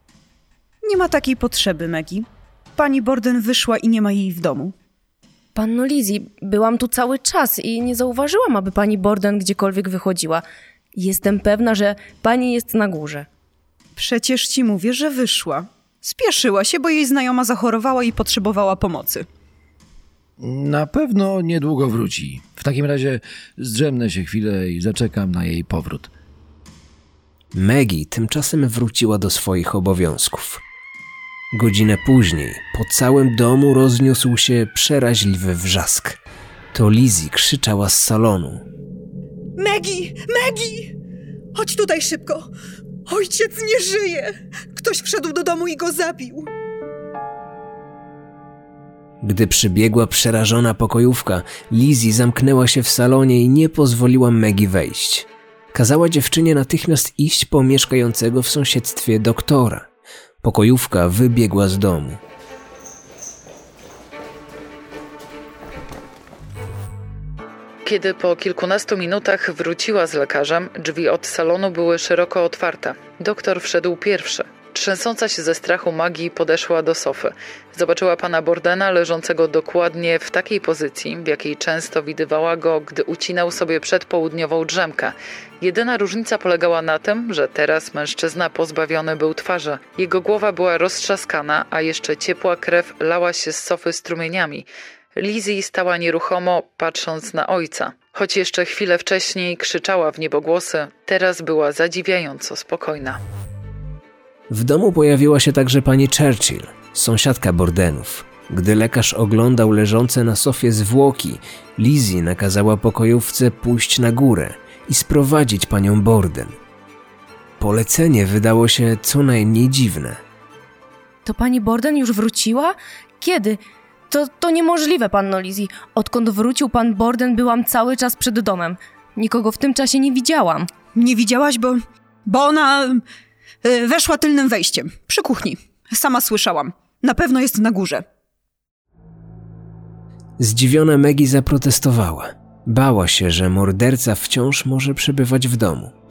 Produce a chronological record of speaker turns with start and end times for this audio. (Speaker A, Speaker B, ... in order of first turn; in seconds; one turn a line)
Speaker A: 0.8-4.7
Speaker B: 5.5-10.4
Speaker B: 10.9-13.3
Speaker A: 13.9-19.3
Speaker C: 20.4-26.1
Speaker D: 27.5-30.6
Speaker D: 31.5-36.2
Speaker D: 36.7-38.6
Speaker A: 39.5-41.0
Speaker A: 41.5-42.5
Speaker A: 43.1-46.5
Speaker D: 49.2-59.9
Speaker D: 60.4-62.2
Speaker E: 67.8-103.2
Speaker D: 104.5-116.5
Speaker D: 117.6-120.2
Speaker B: 121.2-130.7
Speaker A: 130.9-133.0
Speaker A: 133.6-138.1
Speaker D: 140.4-145.9